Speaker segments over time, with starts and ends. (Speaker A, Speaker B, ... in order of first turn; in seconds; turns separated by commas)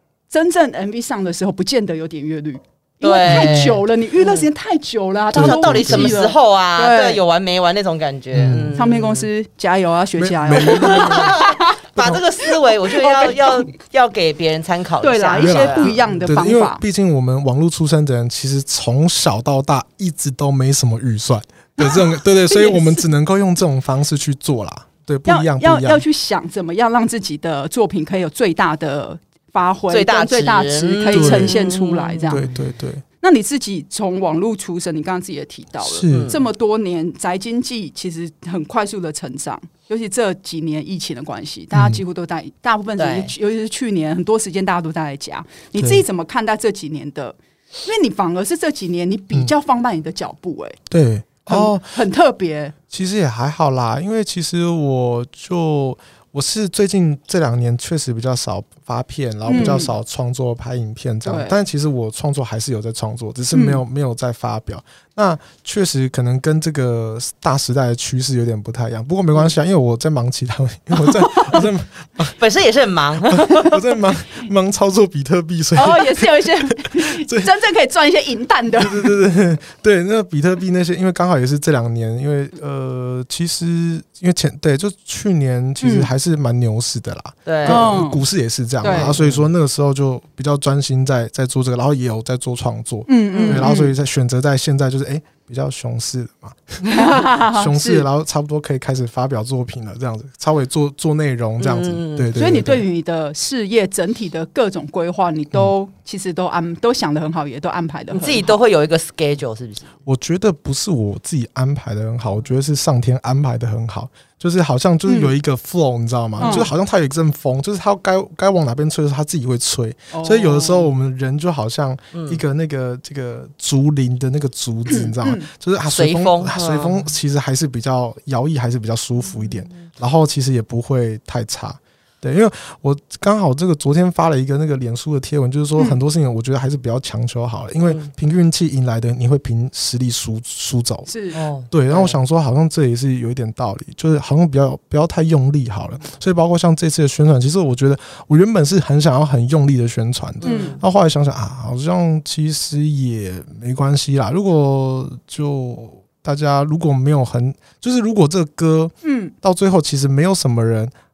Speaker A: 0.3-7.2, Speaker B: 3.0-4.5, Speaker C: 3.3-3.6, Speaker C: 5.3-6.2, Speaker B: 5.3-9.3, Speaker C: 8.3-8.8, Speaker A: 8.8-11.8, Speaker C: 10.2-11.4, Speaker B: 10.6-16.0, Speaker C: 11.9-12.2, Speaker A: 12.4-13.7, Speaker A: 15.0-16.8, Speaker C: 15.4-26.0, Speaker A: 21.8-23.1, Speaker A: 25.2-32.5, Speaker B: 29.9-32.5, Speaker C: 31.1-31.6, Speaker C: 32.3-33.0, Speaker A: 33.2-50.8, Speaker C: 35.8-36.3, Speaker B: 36.1-36.4, Speaker C: 41.7-42.0, Speaker B: 43.0-43.3, Speaker C: 45.8-46.0, Speaker C: 50.9-51.9, Speaker A: 51.5-52.7, Speaker C: 52.9-72.3, Speaker A: 59.4-59.9, Speaker B: 59.5-59.8, Speaker A: 61.2-61.6, Speaker A: 63.5-63.8, Speaker B: 72.4-73.8, Speaker C: 73.3-77.5, Speaker A: 75.7-79.1, Speaker C: 78.8-102.8, Speaker A: 85.8-86.1, Speaker B: 87.4-87.9, Speaker A: 87.7-88.2, Speaker A: 88.8-89.2, Speaker B: 88.8-89.5, Speaker A: 93.1-93.9, Speaker B: 93.4-93.7, Speaker A: 96.8-98.1, Speaker B: 101.6-102.3, Speaker A: 102.3-108.6, Speaker B: 108.1-109.9, Speaker C: 110.1-141.1, Speaker A: 115.1-115.3, Speaker B: 116.4-116.7, Speaker A: 116.4-116.7, Speaker A: 120.1-120.9, Speaker B: 122.1-122.4, Speaker A: 124.9-125.5, Speaker B: 125.9-127.1, Speaker B: 137.8-138.1, Speaker A: 141.1-141.4, Speaker B: 141.3-142.2, Speaker C: 141.7-160.9, Speaker B: 150.4-150.8, Speaker A: 150.4-150.8, Speaker A: 159.0-159.3